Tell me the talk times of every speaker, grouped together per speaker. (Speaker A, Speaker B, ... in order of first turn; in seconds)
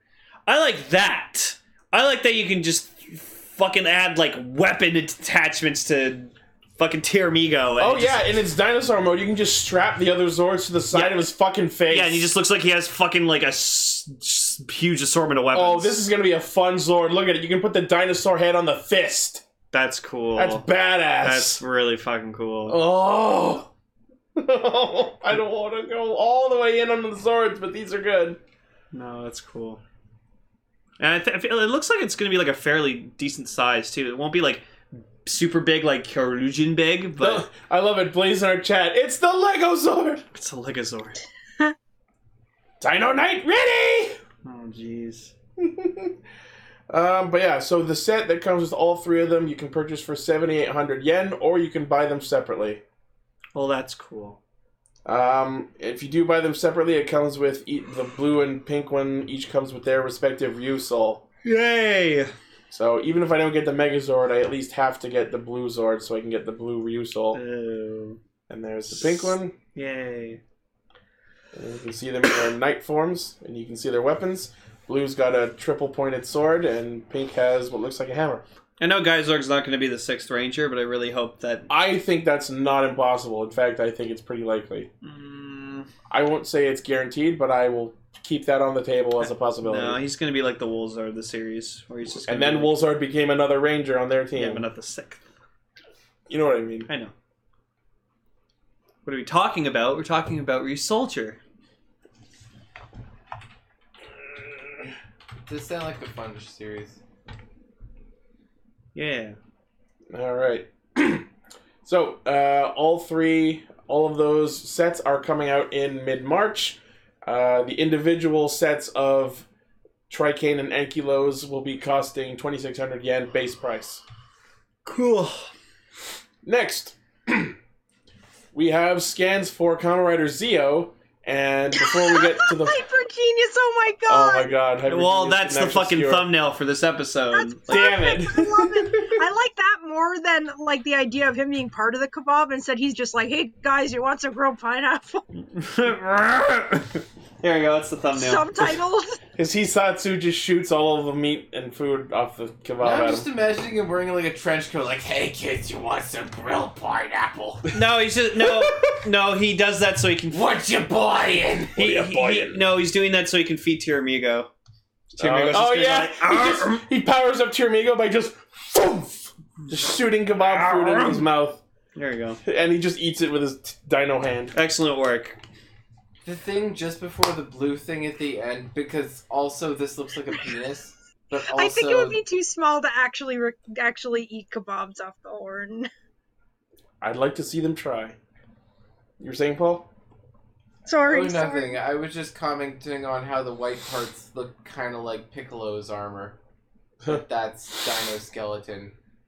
Speaker A: 0.5-8.2, 10.9-11.3, 11.9-16.0, 19.7-20.7, 21.2-22.8, 28.9-29.8, 31.0-34.6, 35.2-37.5, 40.3-41.2, 44.4-45.3, 53.5-54.4, 61.5-62.3, 67.3-68.2, 68.9-70.4, 78.8-81.7, 85.0-85.9, 89.2-92.7, 94.4-95.2, 96.9-97.1, 99.0-101.4, 109.0-109.4, 124.8-125.5, 134.9-137.9, 145.6-148.8, 157.7-160.4, 161.8-164.5, 165.2-166.8, 170.4-171.2, 171.9-172.4, 174.5-175.4
Speaker B: 7.8-12.3, 15.5-19.4, 20.4-21.6, 22.7-23.7, 24.4-28.4, 37.2-40.2, 42.8-44.2, 45.6-46.2, 46.9-52.8, 55.1-61.2, 62.7-67.4, 68.5-69.5, 71.5-78.4, 81.7-84.9, 86.1-90.0, 92.1-94.7, 96.3-96.9, 110.1-111.3, 111.8-119.5, 120.1-124.0, 126.5-127.5, 128.5-132.8, 134.1-136.3, 137.7-139.2, 149.4-153.3, 158.4-159.0, 161.8-162.6, 165.2-171.6, 172.4-174.6, 187.0-188.2, 189.2-189.9
Speaker C: 105.5-107.0, 152.8-157.7, 160.3-161.8, 176.2-182.2, 191.1-196.4, 197.1-198.9
Speaker D: 131.8-134.5, 137.3-145.2, 148.1-149.2, 181.5-185.9, 190.9-191.8